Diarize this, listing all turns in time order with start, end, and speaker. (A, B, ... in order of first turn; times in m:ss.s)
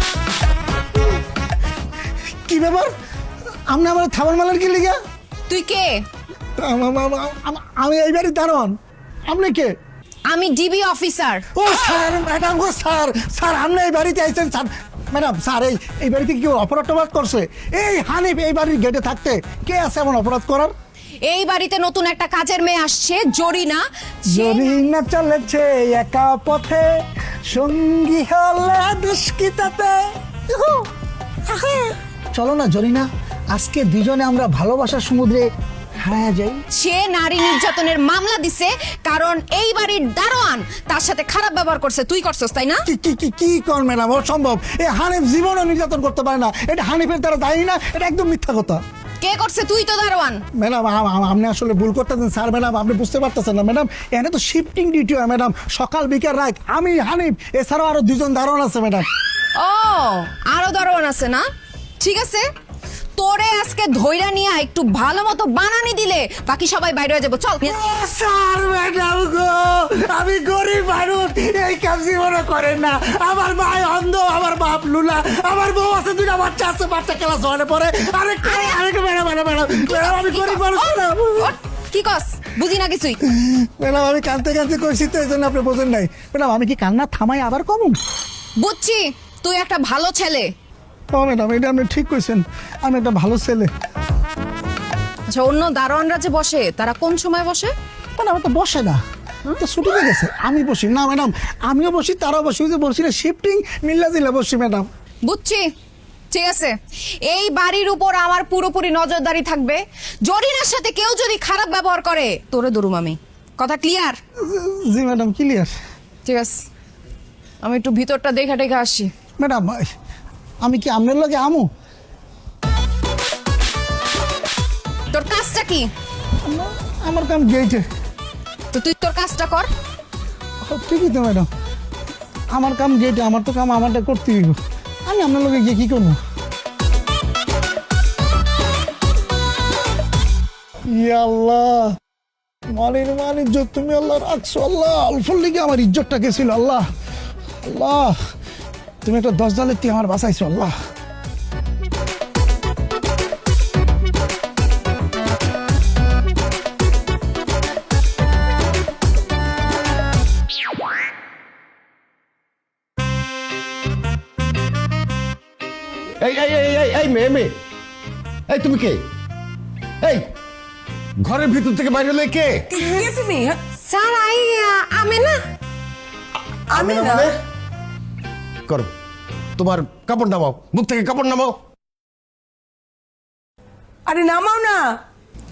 0:02.5-0:02.9 A
0:03.7-0:05.0 A
0:05.5-0:06.0 B
0:06.6-0:09.7 A
0:10.3-0:11.5 B
0:11.5-0:20.7 A
0:21.2-0:24.8 B
0:24.3-0:26.9 A
0:27.5-0:30.9 A
0:32.3-0:35.5 A
0:36.0-0:36.6 A
0:36.7-0:42.8 B
0:42.9-0:48.8 A
0:49.2-0:50.4 B
0:50.6-0:59.1 A
0:59.6-1:01.5 B
1:02.0-1:02.5 B
1:03.2-1:07.8 B
1:07.6-1:21.5 A
1:19.9-1:23.2 B
1:23.2-1:28.0 A
1:28.6-1:30.5 B
1:31.1-1:33.7 A
1:35.3-1:37.7 B
1:38.2-1:44.9 A
1:45.3-1:45.6 B
1:46.3-1:54.2 B
1:54.4-1:55.7 A
1:56.2-1:56.6 B
1:57.6-1:59.1 B
1:59.4-1:59.9 A
2:00.6-2:01.7 A
2:05.1-2:05.9 B
2:06.4-2:07.8 A
2:08.7-2:09.7 B
2:10.6-2:11.5 A
2:12.5-2:16.2 A
2:20.9-2:22.0 A
2:22.7-2:26.9 A
2:27.6-2:28.2 A
2:29.0-2:30.7 A
2:46.2-2:47.6 C
2:48.5-2:49.1 C
2:50.0-2:50.3 C
2:51.2-2:52.7 C
2:52.7-2:53.6 D
2:52.8-2:53.1 B
2:53.7-2:55.4 B
2:56.7-2:57.3 D
2:56.7-2:57.4 C
2:58.7-2:58.9 C
2:59.6-3:01.6 C
3:04.1-3:05.0 D